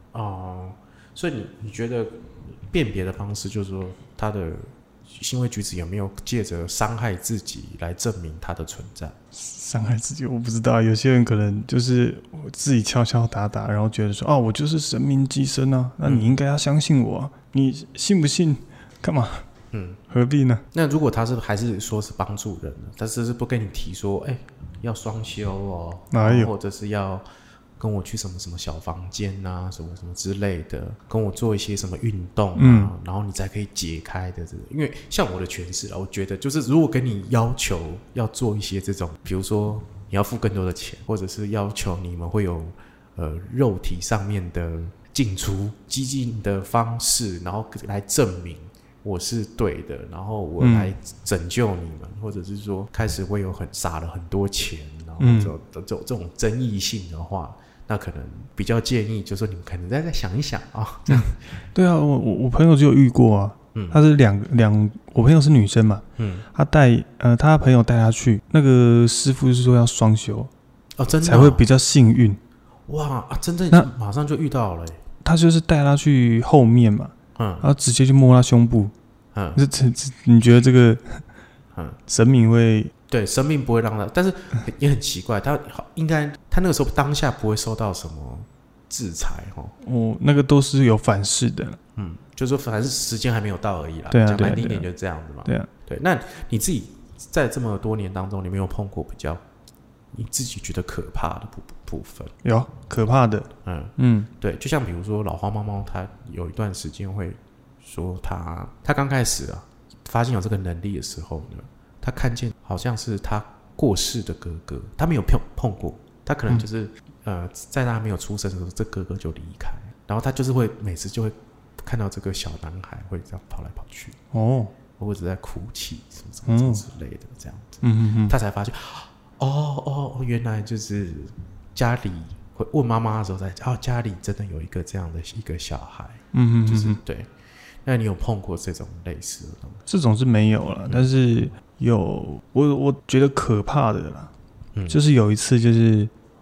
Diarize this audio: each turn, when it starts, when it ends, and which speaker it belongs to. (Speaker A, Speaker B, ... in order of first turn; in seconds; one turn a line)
Speaker A: 0.1-9.2
Speaker B: 9.3-19.4
Speaker A: 16.0-16.3
Speaker A: 19.7-20.0
Speaker B: 20.1-20.6
Speaker A: 20.7-27.2
Speaker B: 26.1-26.5
Speaker A: 27.8-61.5
Speaker B: 32.6-32.9
Speaker B: 50.6-50.9
Speaker B: 55.2-55.5
Speaker B: 61.1-70.5
Speaker A: 63.7-64.0
Speaker A: 66.2-66.5
Speaker A: 71.0-71.6
Speaker B: 71.2-72.4
Speaker A: 72.9-75.0
Speaker B: 75.2-78.9
Speaker A: 77.3-77.7
Speaker A: 79.3-79.6
Speaker B: 79.5-81.2
Speaker A: 81.7-82.0
Speaker B: 82.1-82.9
Speaker A: 83.1-89.7
Speaker B: 89.8-91.8
Speaker A: 92.0-99.4
Speaker B: 94.1-94.9
Speaker A: 100.1-102.3
Speaker B: 102.4-104.3
Speaker A: 103.6-124.2
Speaker B: 124.3-124.7
Speaker A: 125.0-137.3
Speaker B: 126.5-126.8
Speaker B: 127.8-128.3
Speaker B: 136.3-137.0
Speaker A: 137.8-139.8
Speaker B: 139.9-144.3
Speaker A: 144.7-145.0
Speaker B: 144.9-146.1